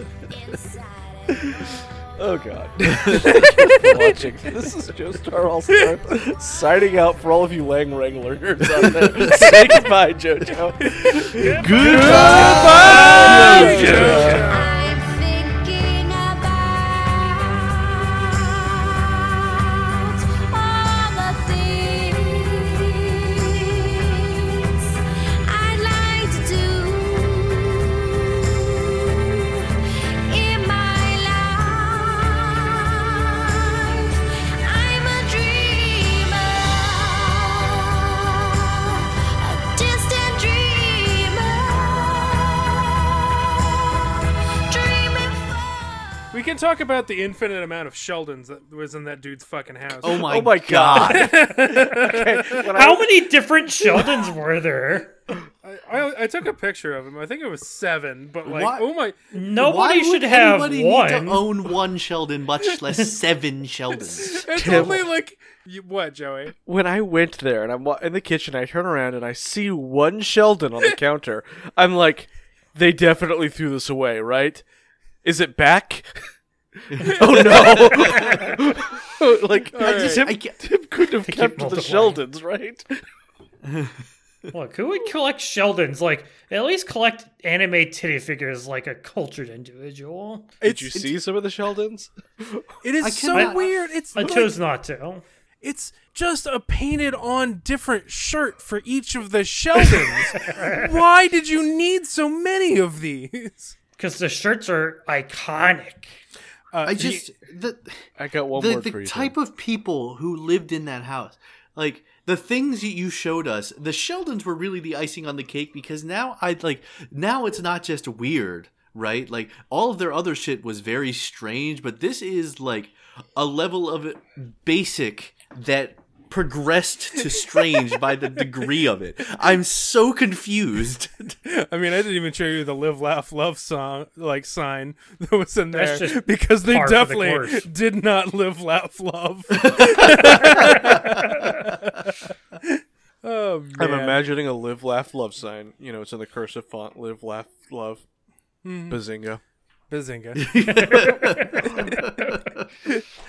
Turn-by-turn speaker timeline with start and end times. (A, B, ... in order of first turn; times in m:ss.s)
0:00.3-0:01.8 A
0:01.4-0:14.5 B
0:02.9-0:03.3 C
0:03.3-0:04.2 D
0:09.0-0:09.8 C
0:11.4-0:14.4 E
0:11.5-0:14.4 C
0:11.6-0:14.6 D
0:14.4-0:17.8 A
0:20.3-0:23.6 A
0:25.4-0:28.3 A
0:29.0-0:29.6 A
0:30.3-0:32.9 A
0:33.8-0:34.1 A
0:34.6-0:37.9 A
0:39.4-0:42.8 A
0:44.7-0:45.7 A
0:46.3-0:50.3 D
0:50.0-0:51.3 C
0:50.1-0:53.0 B
0:51.1-0:52.6 D
0:52.7-0:55.1 E
0:55.6-0:59.2 D
0:58.4-0:58.9 C
0:59.3-1:01.5 E
0:59.4-1:05.0 C
1:04.0-1:06.5 D
1:04.5-1:05.1 B
1:06.6-1:14.6 B
1:15.2-1:16.1 B
1:16.9-1:22.9 B
1:17.0-1:17.2 C
1:17.3-1:18.1 D
1:19.7-1:20.2 D
1:20.2-1:20.6 C
1:21.2-1:22.2 E
1:24.5-1:30.5 E
1:30.6-1:31.1 D
1:30.6-1:32.6 B
1:32.8-1:34.5 D
1:33.0-1:33.7 C
1:33.3-1:35.2 E
1:35.6-1:43.7 D
1:40.3-1:40.9 E
1:44.0-1:46.2 E
1:46.7-1:47.3 D
1:46.8-2:11.4 C
1:48.2-1:49.3 B
2:11.4-2:22.1 D
2:15.7-2:17.7 E
2:19.6-2:20.5 C
2:22.6-2:24.2 D
2:23.8-2:28.0 B
2:28.6-2:29.0 D
2:28.9-2:29.4 B
2:29.9-2:30.4 D
2:30.3-2:32.6 C
2:30.7-2:32.4 E